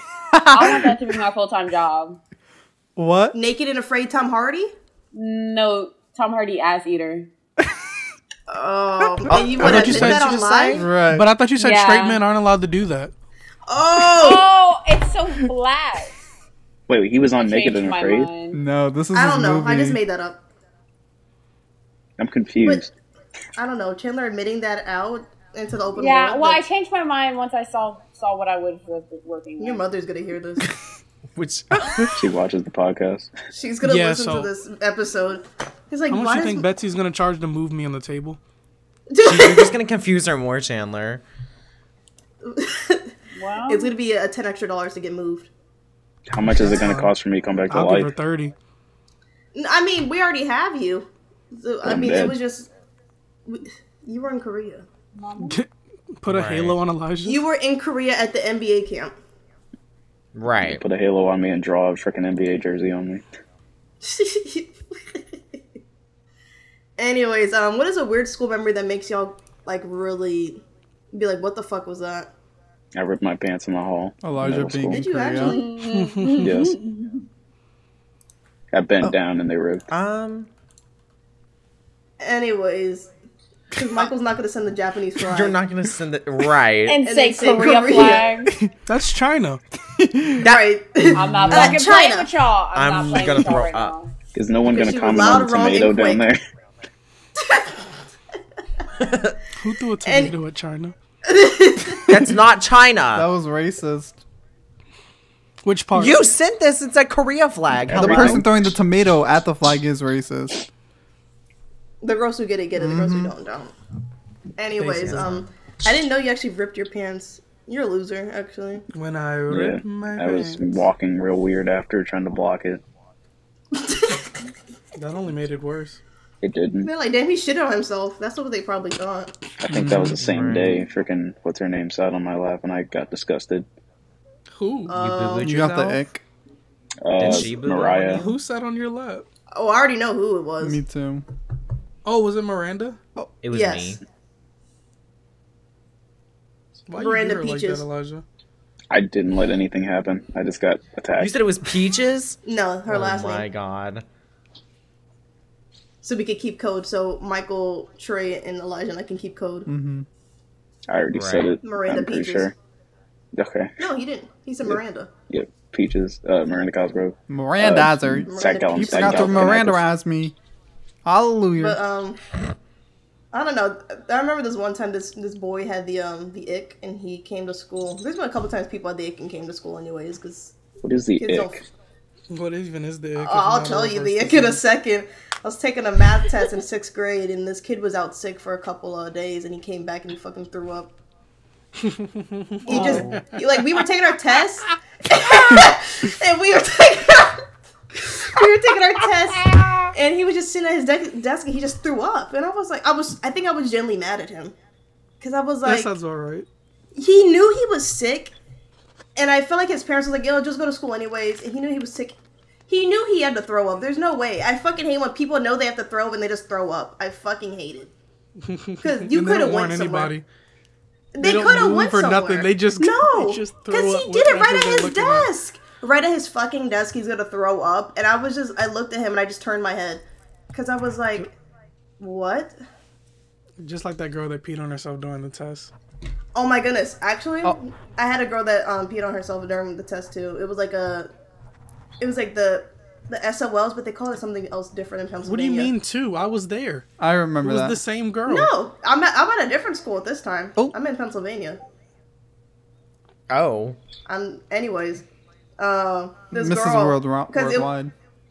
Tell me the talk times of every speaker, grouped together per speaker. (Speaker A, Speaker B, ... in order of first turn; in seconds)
Speaker A: 0.3-0.7, 3.0-3.4, 9.3-10.0, 10.7-11.3, 18.5-20.0, 74.2-75.6, 89.9-90.4, 91.2-91.7, 103.1-104.2, 107.9-110.6, 112.8-113.3, 129.7-130.2, 135.4-136.2, 140.6-141.2, 159.7-160.1, 167.3-170.3, 171.0-171.8, 247.0-247.8, 256.3-257.9
Speaker B: 0.5-2.2, 5.1-7.3, 11.6-12.2, 14.1-16.1, 17.4-18.6, 26.0-29.8, 43.3-43.9, 55.1-55.6, 75.3-77.1, 86.8-88.5, 91.1-94.1
Speaker C: 3.3-4.7, 8.5-10.8, 13.7-14.5, 19.1-20.4, 23.6-26.6, 29.6-30.7, 33.5-36.6, 39.1-39.8, 42.4-43.1, 43.7-45.5, 49.5-52.7, 53.5-54.9, 57.2-59.1, 64.0-65.2, 67.0-72.3, 74.9-75.8, 82.2-83.1, 83.7-85.6, 87.0-88.3, 90.4-92.3, 94.6-96.3, 97.4-97.9, 100.0-100.3, 101.2-102.3, 112.0-113.7, 114.6-118.8, 123.7-124.2, 126.8-129.3, 134.9-135.6, 139.5-140.8, 143.5-144.0, 146.9-147.8, 152.4-153.5, 156.0-159.7, 161.6-162.5, 163.8-165.1, 168.3-169.6, 171.6-172.2, 173.3-180.5, 181.2-181.6, 183.2-190.9, 192.7-197.4, 198.0-204.5, 205.2-205.9, 206.9-208.3, 209.2-212.2, 212.7-217.9, 218.8-220.1, 221.1-231.3, 232.0-232.6, 236.3-241.1, 242.0-245.7, 248.3-251.6, 254.1-255.1, 255.6-257.7
Speaker D: 9.3-10.8, 31.3-32.2, 39.2-41.2, 56.3-56.8, 60.3-60.8, 79.9-80.5, 85.2-87.0, 90.4-90.6, 92.7-93.9, 99.0-99.4, 102.1-103.3, 105.9-108.5, 115.0-115.4, 129.9-130.8, 134.9-136.0, 137.2-138.3, 143.4-144.0, 151.2-154.0, 161.1-161.5, 253.3-253.8
Speaker E: 9.6-10.4, 11.0-13.1, 33.8-34.5, 36.1-38.4, 46.5-47.1, 47.7-48.5, 55.4-55.7, 56.2-57.4, 75.8-76.7, 88.7-89.6, 99.6-100.9, 105.6-106.2, 114.8-115.3, 118.9-120.8, 125.0-126.0, 134.5-134.9, 138.1-139.2, 142.0-143.0, 146.9-148.2, 182.3-184.6, 191.8-193.6, 205.6-206.5, 218.4-220.2, 221.2-225.3, 233.6-235.7, 245.2-246.8, 247.4-248.5
Speaker F: 16.9-18.3, 22.2-22.9, 32.1-33.3, 46.3-48.1, 51.8-52.4, 60.6-63.2, 72.9-75.0, 76.4-76.8, 78.7-79.8, 94.3-96.4, 107.9-108.4, 119.5-122.8, 126.4-126.9, 129.6-133.7, 137.0-138.3, 148.9-151.4, 160.9-162.5, 163.3-163.7, 165.3-169.8, 180.8-181.6